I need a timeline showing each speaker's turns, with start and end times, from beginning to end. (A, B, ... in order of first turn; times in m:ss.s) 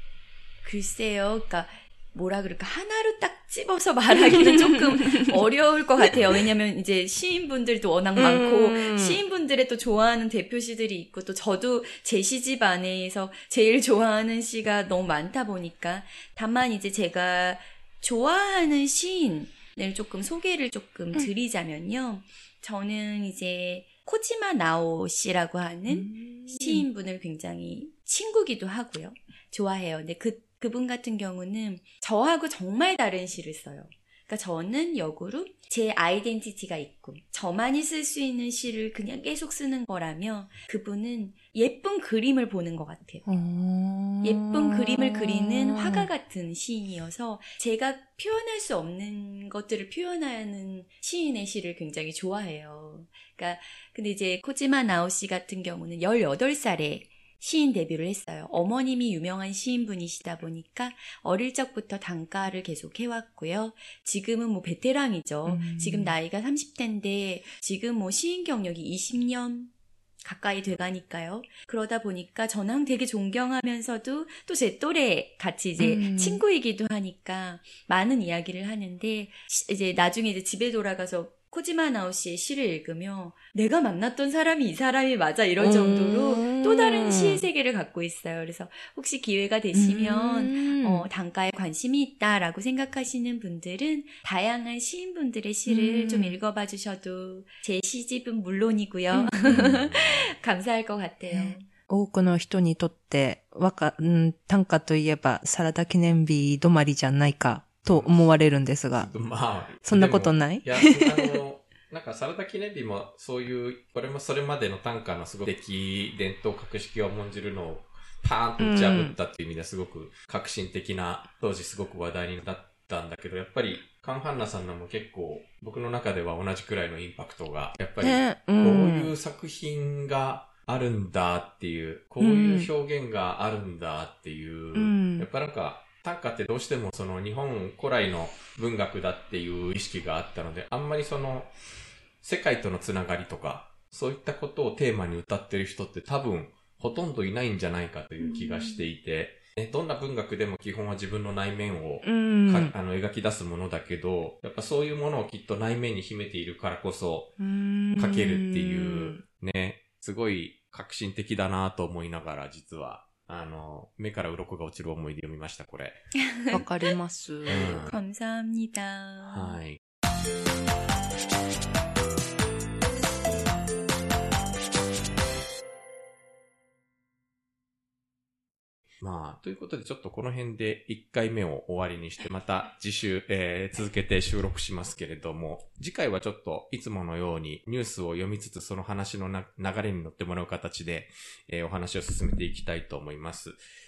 0:00.6-0:43.2 A
0:08.2-0:09.2 B
0:25.9-0:26.8 B
0:43.2-0:46.1 B
0:44.2-1:09.7 A
1:05.4-1:06.1 B
1:10.2-1:41.6 A
1:15.8-1:16.4 B
1:25.6-1:27.4 B
1:29.7-1:31.1 B
1:35.7-1:36.4 B
1:39.1-1:39.8 B
1:39.4-1:40.3 C
1:41.3-1:49.1 B
1:47.9-2:21.5 C
1:49.8-1:51.4 B
1:58.6-1:59.2 B
2:08.0-2:09.1 B
2:12.2-2:12.7 B
2:14.7-2:15.3 B
2:22.2-2:37.3 C
2:28.2-2:28.6 B
2:32.0-2:32.7 B
2:37.4-2:39.2 B
2:38.0-2:46.1 C
2:46.2-2:46.6 A
2:46.5-2:47.8 B
2:47.5-2:48.0 C
2:47.5-2:49.6 A
2:49.2-2:49.8 C
2:59.0-3:13.6 C